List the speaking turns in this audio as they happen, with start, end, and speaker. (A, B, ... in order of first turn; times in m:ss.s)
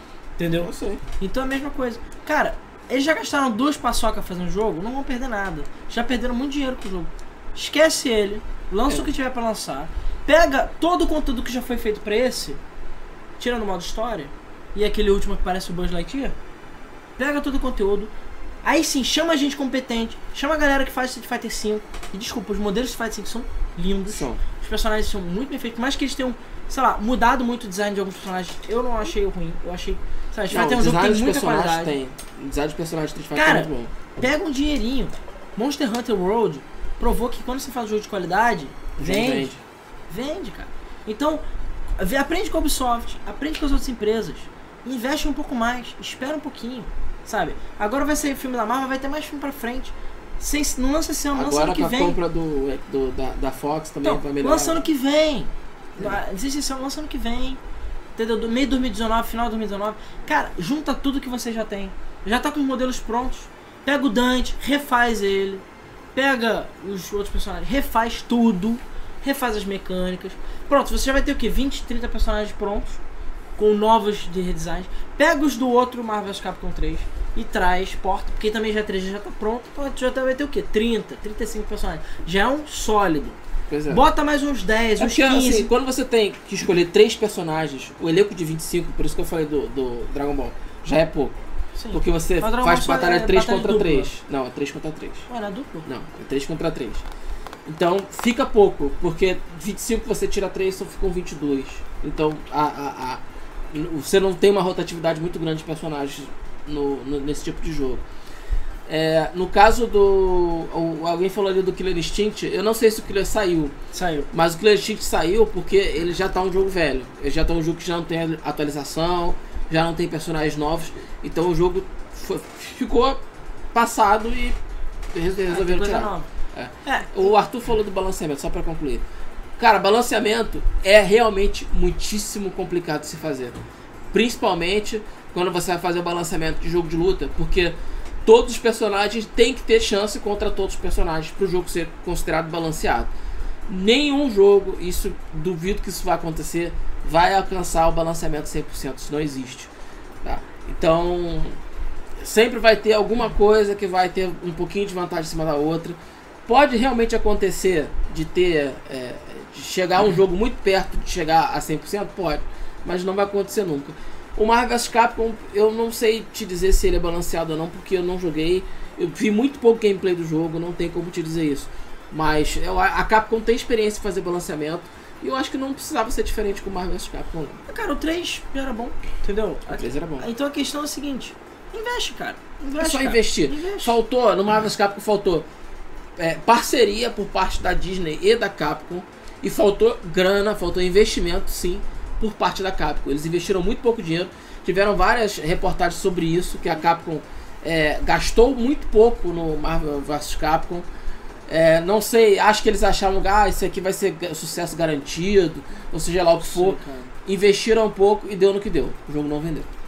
0:00.4-0:12.6 A
0:00.6-0:01.0 B
0:13.4-0:16.3 A
0:17.2-0:18.1 A
0:18.6-0:31.9 A
0:24.1-0:24.4 B
0:30.5-0:33.9 B
0:33.3-0:39.5 A
0:39.0-0:39.6 B
0:40.1-0:41.4 A
0:42.0-0:52.2 A
0:51.3-0:54.8 B
0:54.0-0:57.6 A
0:58.2-1:05.6 A
1:06.1-1:13.0 A
1:13.6-1:23.4 A
1:23.7-1:24.0 B
1:23.9-1:25.7 A
1:25.0-1:31.4 B
1:31.8-1:34.1 A
1:31.9-1:35.3 B
1:35.3-1:35.9 A
1:35.8-1:37.0 B
1:37.6-1:48.0 B
1:48.8-1:53.7 B
1:53.9-1:54.3 A
1:54.3-2:03.2 B
2:03.7-2:04.6 B
2:05.1-2:09.0 B
2:05.5-2:06.3 A
2:06.8-2:07.3 A
2:09.6-2:13.6 B
2:14.1-2:23.1 B
2:23.7-2:29.7 B
2:30.2-2:31.6 B
2:32.2-2:57.6 B
2:57.7-3:04.0 A
2:59.7-3:00.3 B
3:02.8-3:05.5 B
3:06.2-3:20.9 B
3:21.5-3:29.7 B
3:26.4-3:27.1 A